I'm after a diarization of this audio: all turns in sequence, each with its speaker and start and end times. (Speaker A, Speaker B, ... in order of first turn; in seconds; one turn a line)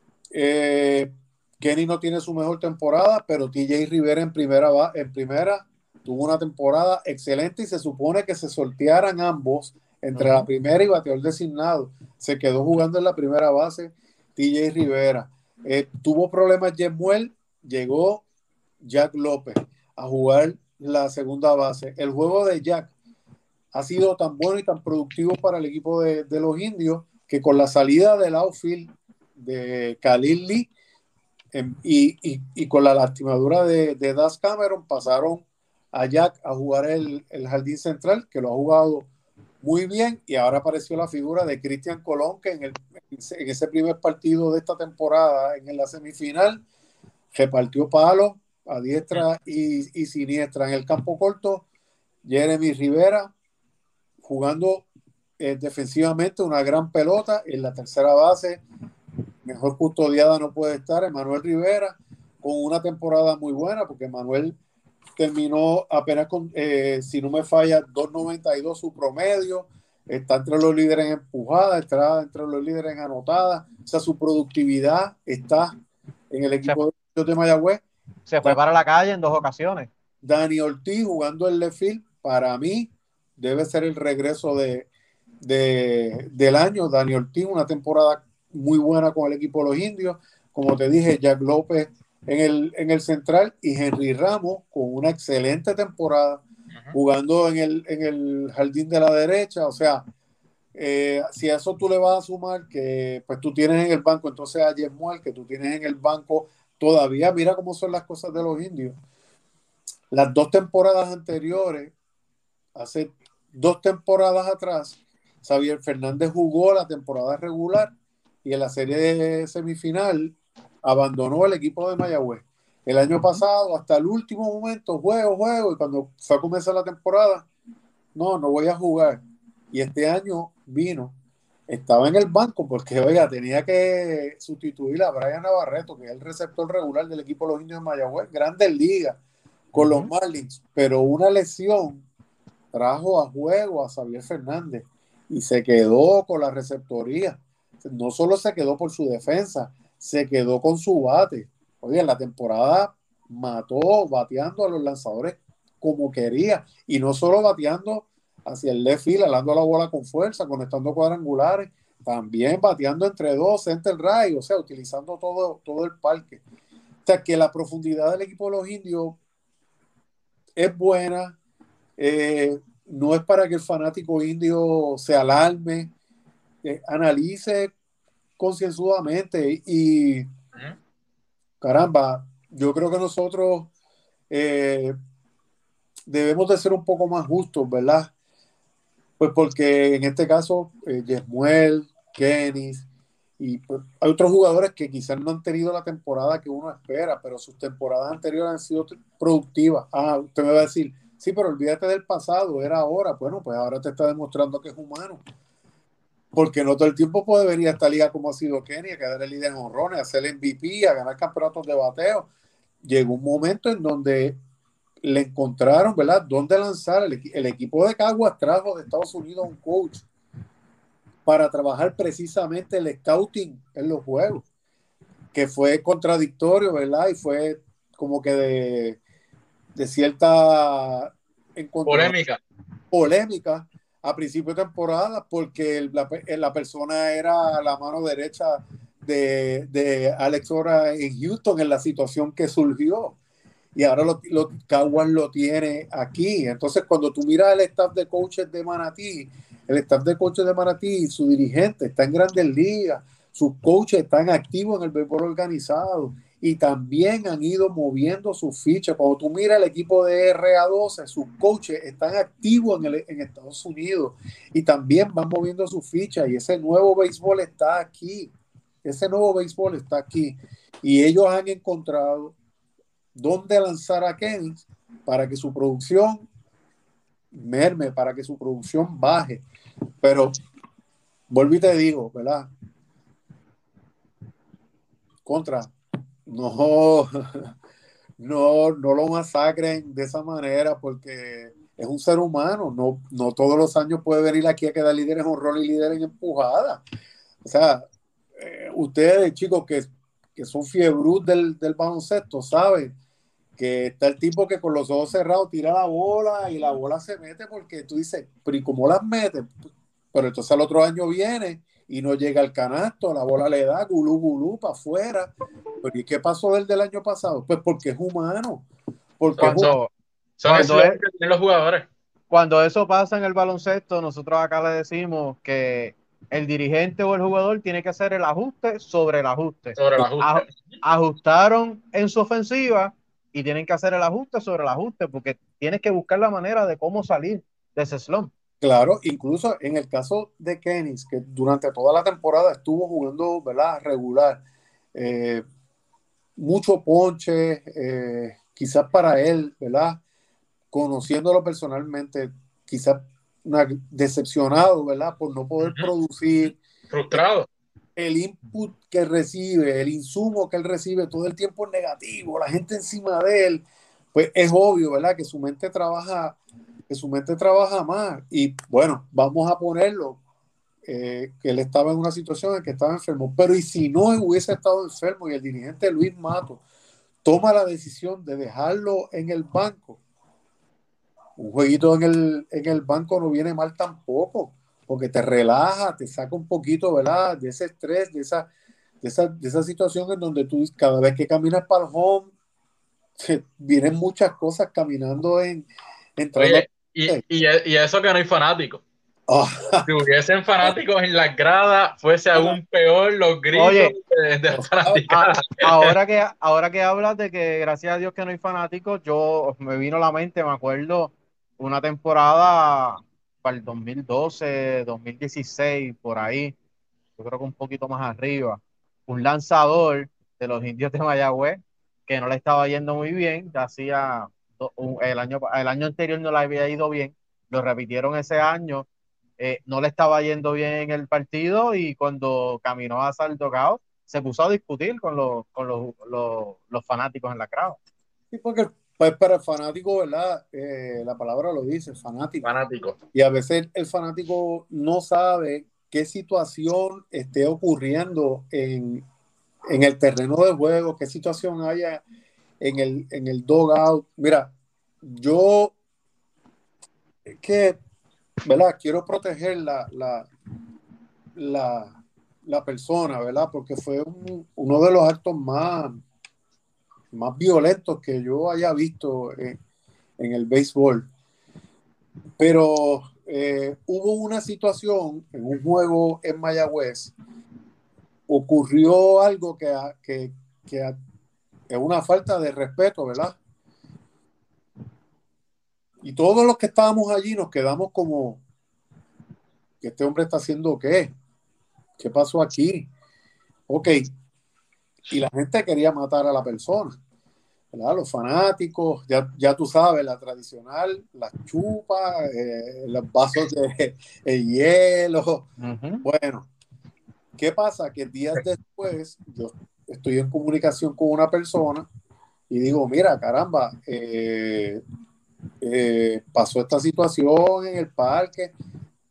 Speaker A: 0.3-18.2
Speaker B: 10.1-10.5
Speaker A: 18.8-22.9
Speaker A: 23.7-30.7
Speaker A: 31.5-39.1
Speaker A: 39.6-46.6
Speaker A: 47.3-51.6
Speaker A: 52.2-53.3
Speaker A: 54.2-54.9
Speaker A: 55.4-58.6
Speaker A: 59.4-64.6
Speaker A: 65.2-75.7
Speaker A: 76.3-77.8
Speaker B: 78.3-79.9
Speaker A: 80.2-84.9
Speaker A: 85.4-100.0
Speaker A: 100.7-109.0
Speaker A: 110.1-111.9
Speaker A: 112.7-117.9
Speaker A: 118.4-127.5
Speaker A: 128.1-129.2
Speaker A: 129.7-131.2
Speaker A: 131.7-139.2
Speaker B: 139.7-140.1
Speaker A: 139.7-142.1
Speaker A: 142.7-166.4
Speaker A: 167.0-169.2
Speaker A: 170.6-171.4
Speaker A: 172.0-175.9
Speaker A: 176.6-177.7
Speaker A: 178.4-180.3
Speaker A: 181.6-183.7
Speaker A: 184.3-184.9
Speaker A: 186.1-188.1
Speaker A: 189.2-192.9
Speaker A: 193.4-205.2
Speaker A: 206.3-212.3
Speaker A: 212.8-214.4
Speaker A: 215.0-220.1
Speaker A: 221.2-224.4
Speaker A: 225.3-229.0
Speaker A: 229.8-232.2
Speaker C: 231.8-232.4
Speaker A: 232.9-243.2
Speaker A: 243.7-268.3
Speaker A: 268.8-272.4
Speaker A: 273.1-276.3
Speaker A: 277.3-279.4
Speaker A: 280.0-280.4
Speaker A: 281.3-282.5
Speaker A: 285.2-285.7
Speaker A: 286.2-287.5
Speaker A: 288.2-296.8
Speaker A: 297.4-302.9
Speaker A: 303.6-309.5
Speaker A: 310.1-318.7
Speaker A: 319.2-319.7
Speaker C: 319.4-319.8
Speaker B: 319.4-319.9
Speaker C: 320.4-321.9
Speaker B: 320.5-321.0
Speaker B: 322.3-338.3
Speaker C: 329.8-330.8
Speaker A: 338.6-344.4
Speaker A: 344.9-345.4
Speaker A: 346.4-350.0
Speaker A: 350.7-356.6
Speaker C: 355.6-355.9
Speaker C: 356.9-357.5
Speaker A: 357.9-366.4
Speaker A: 366.9-370.2
Speaker A: 370.8-376.6
Speaker A: 377.2-380.0
Speaker A: 381.4-388.5
Speaker A: 389.0-392.3
Speaker A: 393.2-397.2
Speaker C: 396.4-398.8
Speaker A: 399.3-399.9
Speaker C: 399.9-405.9
Speaker B: 403.5-403.9
Speaker A: 404.5-405.0
Speaker B: 405.1-416.6
Speaker B: 417.2-428.9
Speaker B: 429.4-437.8
Speaker A: 438.3-442.5
Speaker C: 442.4-443.0
Speaker A: 443.1-449.0
Speaker A: 449.7-452.0
Speaker A: 452.6-455.7
Speaker A: 457.3-457.8
Speaker A: 458.4-460.3
Speaker A: 461.4-465.9
Speaker A: 467.1-469.6
Speaker A: 470.2-471.1
Speaker A: 472.4-477.1
Speaker A: 478.3-480.9
Speaker A: 481.7-483.4
Speaker A: 486.0-488.4
Speaker A: 489.8-491.1
Speaker A: 492.0-492.9
Speaker A: 493.7-494.1
Speaker A: 495.1-497.0
Speaker A: 497.7-505.5
Speaker B: 505.6-506.1
Speaker A: 506.0-506.5
Speaker A: 507.4-511.9
Speaker A: 512.5-514.8
Speaker A: 515.6-518.5